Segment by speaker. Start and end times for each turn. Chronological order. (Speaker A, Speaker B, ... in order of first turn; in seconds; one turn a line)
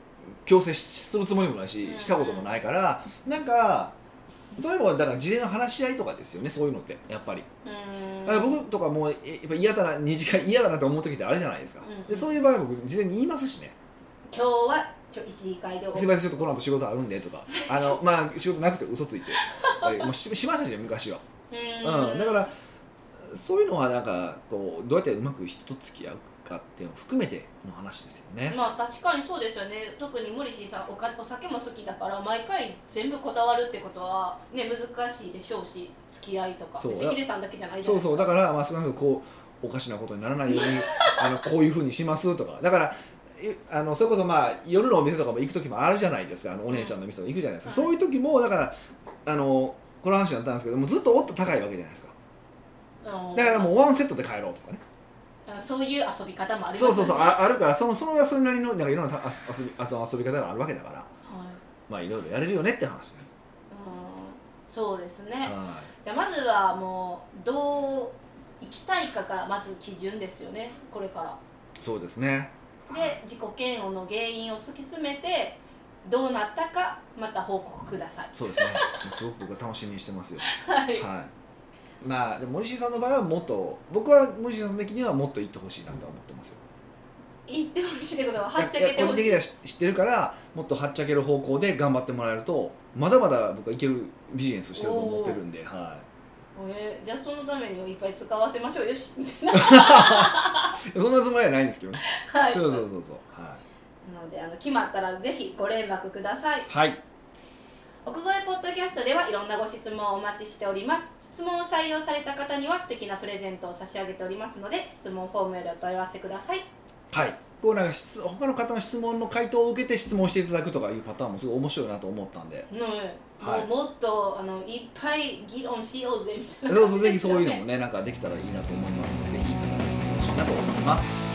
Speaker A: 0.4-7.5
Speaker B: 1.8-2.5
Speaker B: 7.6-8.6
Speaker A: 8.2-13.8
Speaker B: 11.8-12.3
Speaker B: 14.3-16.3
Speaker A: 15.9-21.2
Speaker B: 17.5-17.9
Speaker B: 19.4-20.1
Speaker B: 21.5-22.5
Speaker A: 21.8-22.5
Speaker A: 23.3-28.6
Speaker B: 28.5-38.3
Speaker A: 36.8-37.2
Speaker A: 37.8-52.1
Speaker B: 40.5-41.3
Speaker B: 47.6-47.9
Speaker B: 53.0-53.7
Speaker A: 53.3-54.8
Speaker B: 55.5-57.4
Speaker A: 56.7-61.1
Speaker B: 61.2-61.6
Speaker A: 61.9-63.3
Speaker B: 63.7-71.4
Speaker A: 65.4-65.9
Speaker A: 71.8-73.2
Speaker B: 72.9-79.0
Speaker A: 78.3-80.4
Speaker B: 80.5-81.1
Speaker A: 81.0-81.3
Speaker A: 82.0-86.6
Speaker B: 87.5-89.4
Speaker A: 88.6-96.0
Speaker B: 94.7-95.4
Speaker B: 96.5-100.8
Speaker A: 99.5-103.6
Speaker B: 102.0-102.8
Speaker B: 104.0-106.7
Speaker A: 106.7-107.0
Speaker B: 108.0-116.6
Speaker A: 117.1-122.7
Speaker B: 122.7-127.6
Speaker A: 123.4-123.7
Speaker A: 126.7-131.1